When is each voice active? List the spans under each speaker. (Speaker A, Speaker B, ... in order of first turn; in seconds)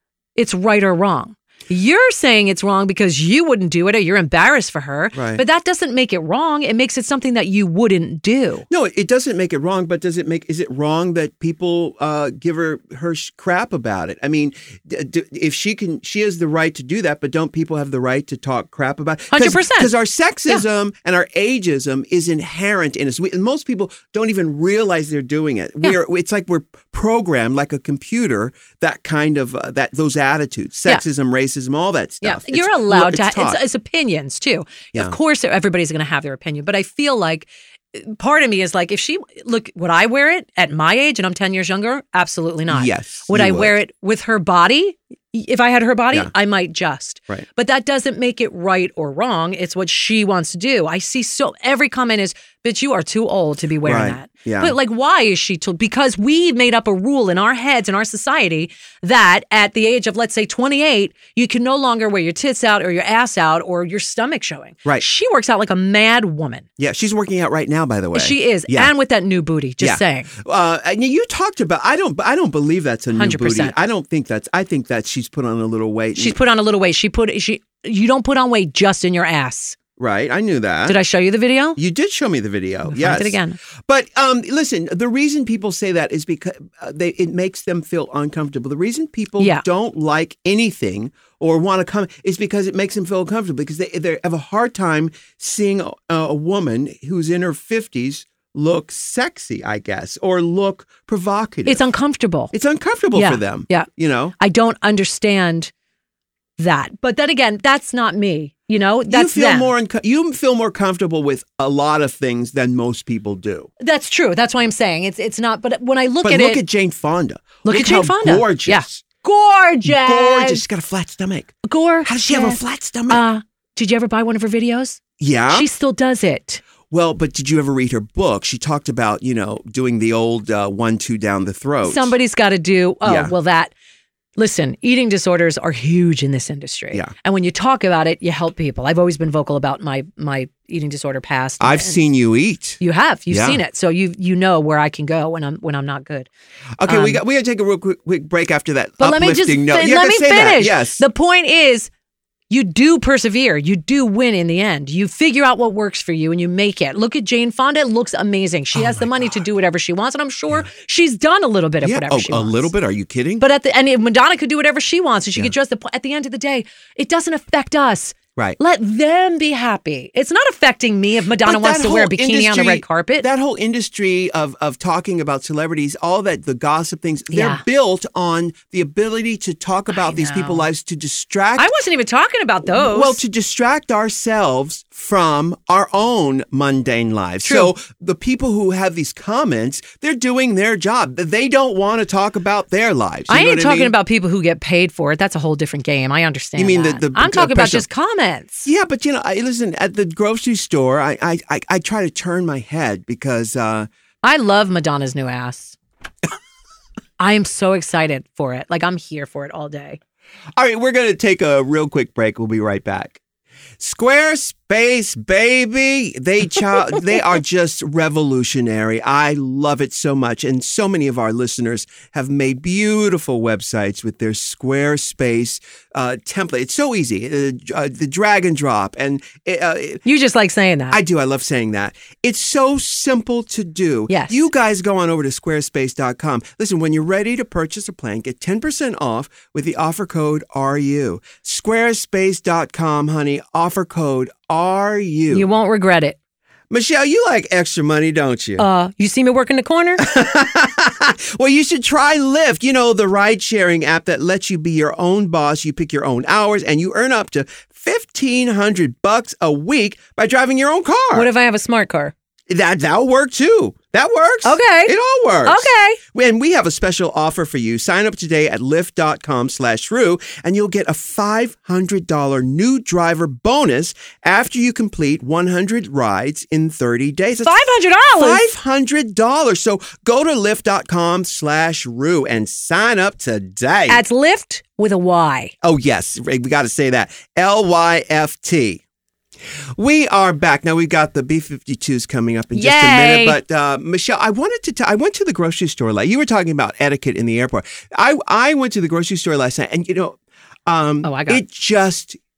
Speaker A: 0.3-8.7, 19.3-19.9, 32.2-66.7, 68.1-70.3, 73.1-73.7, 76.2-79.8, 80.9-81.8, 82.8-83.6, 89.4-89.6, 101.7-102.5, 103.1-105.7, 106.6-109.7, 113.8-116.6, 117.6-120.6, 121.6-126.6, 131.8-133.7, 134.4-142.0, 142.8-146.3, 146.9-147.2, 149.0-151.9, 152.5-162.7, 163.4-173.3, 177.3-177.6, 179.9-180.7, 181.6-183.2, 187.4-187.7, 193.3-198.7, 204.2-205.8, 207.2-210.0, 230.0-231.0, 234.1-234.4, 245.3-246.2, 248.6-250.0, 261.1-262.1, 264.4-266.0, 277.4-278.4, 283.9-285.5, 292.5-293.4, 301.0-301.4
Speaker B: 5.1-5.4, 8.7-33.6, 42.7-43.7, 53.8-54.7, 66.8-68.9, 69.8-76.3, 80.0-81.0, 81.8-101.8, 102.5-104.3, 109.1-113.7, 116.2-119.0, 119.8-123.2, 125.2-125.7, 126.9-132.1, 133.0-133.3, 141.6-143.6, 146.8-151.0, 158.7-159.4, 161.8-163.4, 171.4-181.7, 182.6-193.9, 196.6-197.8, 198.6-203.9, 210.6-213.2, 213.8-230.0, 230.9-245.5, 246.7-248.6, 250.0-261.3, 262.5-284.0, 285.6-288.8, 289.8-302.2